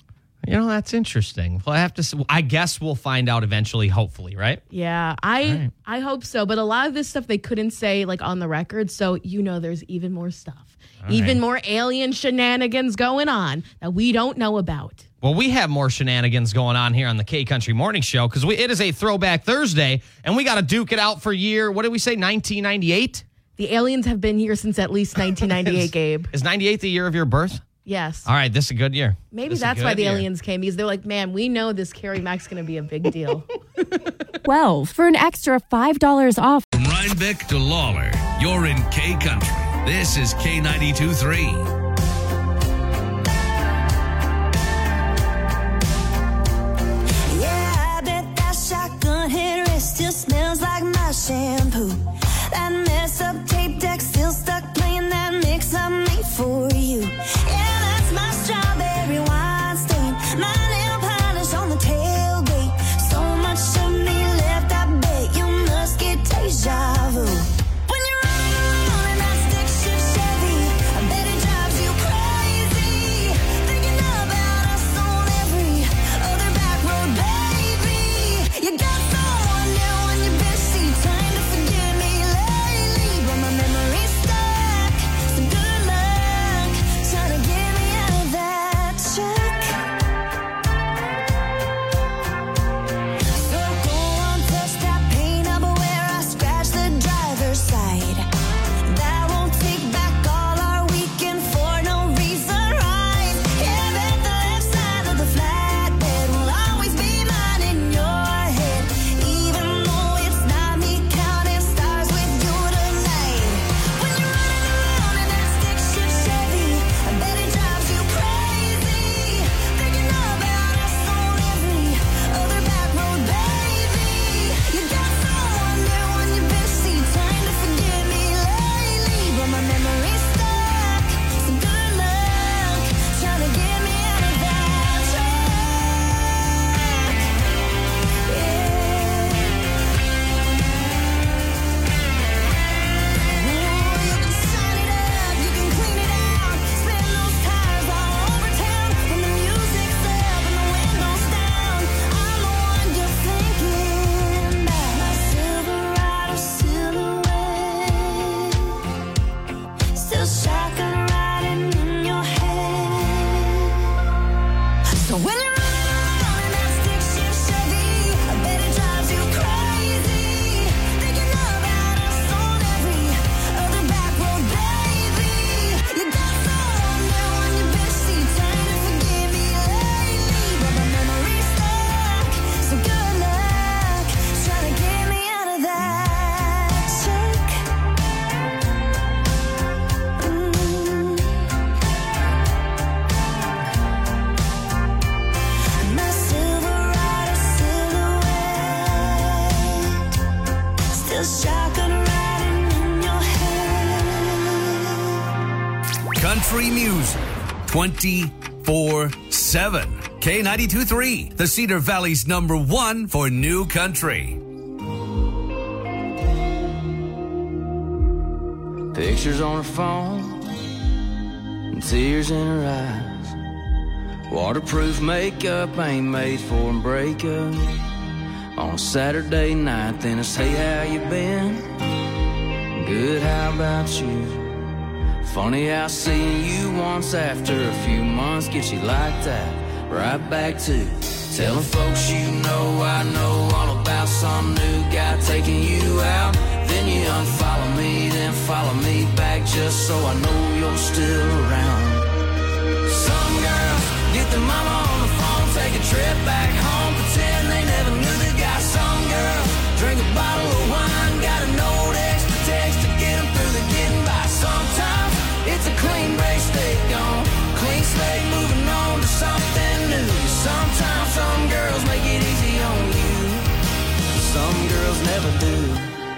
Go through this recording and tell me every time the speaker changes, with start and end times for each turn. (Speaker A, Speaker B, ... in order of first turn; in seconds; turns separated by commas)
Speaker A: 0.4-4.6, Speaker B: 4.7-15.0, Speaker A: 5.4-5.7, Speaker A: 11.0-11.4, Speaker A: 15.2-23.2, Speaker B: 23.6-26.3, Speaker A: 25.5-27.6, Speaker B: 27.8-28.3, Speaker A: 28.2-30.2, Speaker B: 29.3-33.5, Speaker C: 34.4-36.7, Speaker D: 36.7-41.6, Speaker E: 47.3-89.8, Speaker E: 93.3-98.2, Speaker E: 98.8-137.3, Speaker E: 138.2-139.7, Speaker E: 143.1-158.8, Speaker E: 159.9-163.8, Speaker E: 165.0-187.7, Speaker E: 190.2-191.4, Speaker E: 195.8-200.0, Speaker E: 200.9-205.1, Speaker D: 206.1-214.4, Speaker F: 218.9-220.4, Speaker F: 221.7-223.3, Speaker F: 224.3-227.8, Speaker F: 228.5-231.7, Speaker F: 232.7-234.6, Speaker F: 235.2-252.1, Speaker F: 252.8-273.5, Speaker F: 274.1-275.9